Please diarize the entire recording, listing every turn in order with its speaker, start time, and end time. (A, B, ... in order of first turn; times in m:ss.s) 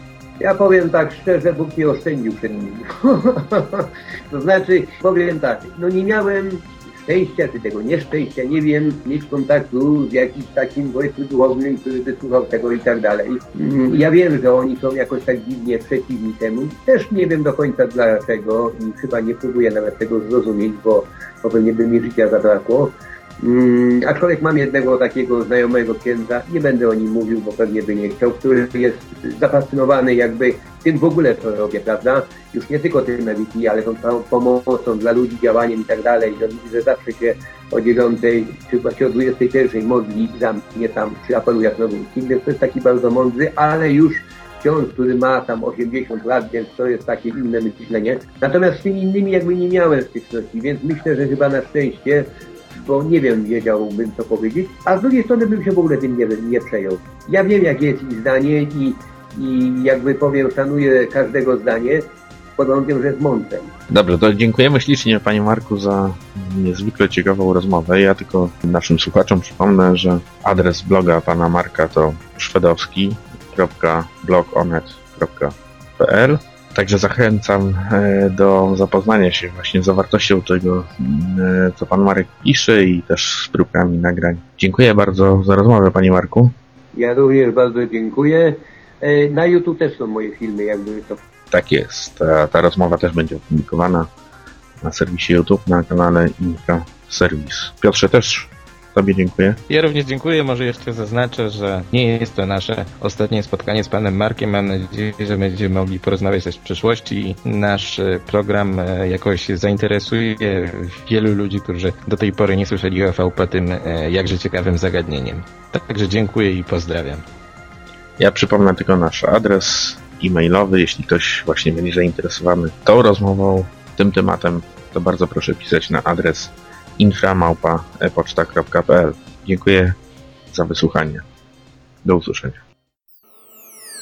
0:00.4-1:02.0 A
1:02.6-1:03.7 A
1:03.9-1:26.5 B
1:26.9-1:31.2 A
1:31.5-1:34.1 B
1:34.8-1:39.6 B
1:39.7-1:57.2 C
1:58.2-2:10.0 B
2:10.5-2:11.2 B
2:12.0-2:12.6 B